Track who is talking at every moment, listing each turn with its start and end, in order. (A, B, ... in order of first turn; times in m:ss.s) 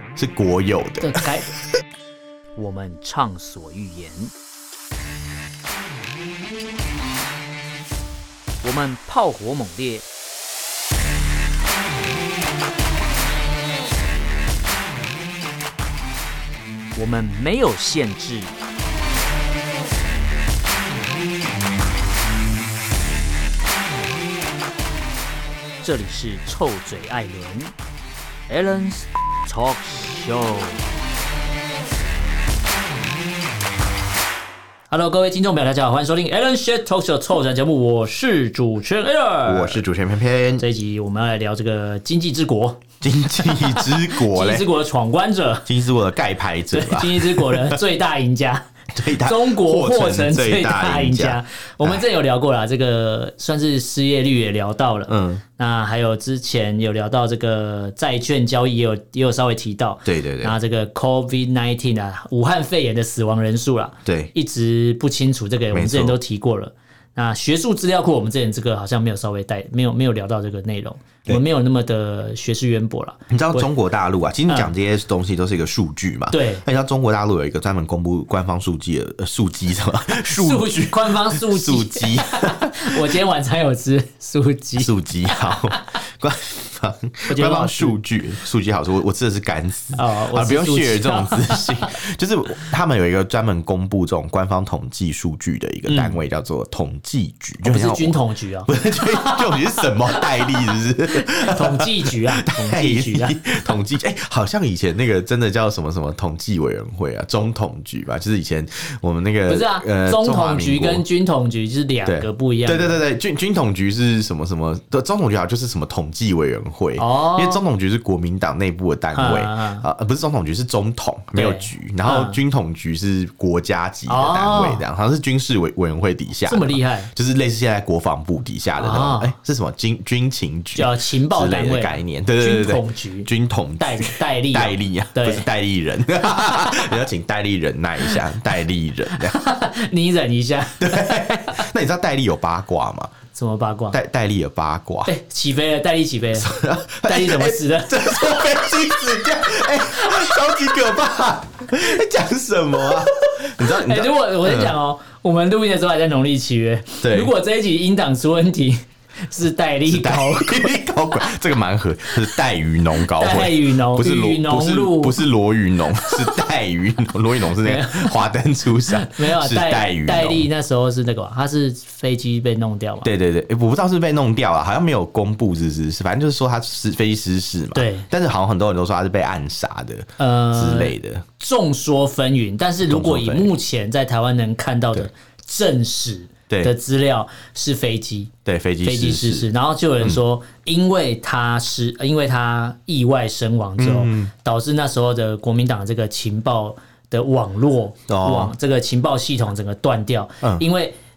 0:00.2-0:01.2 A
0:01.0-0:01.6 B
0:02.6-0:04.3 B
0:08.6-0:10.0 B
0:17.0-0:18.5 B
0:25.8-0:27.7 B
0:28.5-0:30.8 B
0:34.9-0:39.8 B
0:39.5-0:40.6 A
0:40.6-0:42.8 B
0:43.0-0:44.7 A
0:43.4-0:45.7 B
0:45.7-0:47.8 A
0:46.7-1:13.7 B
0:48.9-0:52.0 A
0:55.1-0:55.4 A
1:00.1-1:00.6 A
1:04.0-1:04.3 A
1:05.7-1:06.2 A
1:13.3-1:23.1 A
1:16.3-1:16.6 B
1:20.2-1:25.9 B
1:24.8-1:51.0 A
1:27.3-1:28.0 B
1:29.9-1:32.0 B
1:35.9-1:36.2 B
1:37.6-1:43.4 B
1:49.5-1:53.0 B
1:52.0-2:19.4 A
1:57.0-1:57.6 B
1:59.2-1:59.8 B
2:01.3-2:02.4 B
2:04.1-2:04.8 B
2:06.5-2:07.1 B
2:08.8-2:09.3 B
2:10.8-2:15.5 B
2:16.3-2:17.0 B
2:19.2-2:21.6 B
2:20.8-2:23.1 A
2:23.3-2:24.0 B
2:23.9-2:25.1 A
2:25.1-2:28.2 B
2:26.4-2:34.7 A
2:33.6-2:40.8 B
2:37.0-2:37.3 A
2:39.9-2:50.5 A
2:43.1-2:45.2 B
2:46.1-2:46.3 B
2:47.6-2:48.2 B
2:48.8-2:53.1 B
2:53.0-3:01.2 A
2:57.8-2:58.1 B
3:00.2-3:08.3 B
3:02.9-3:03.5 A
3:08.4-3:09.5 A
3:08.8-3:20.9 B
3:13.8-3:14.3 A
3:18.1-3:18.5 A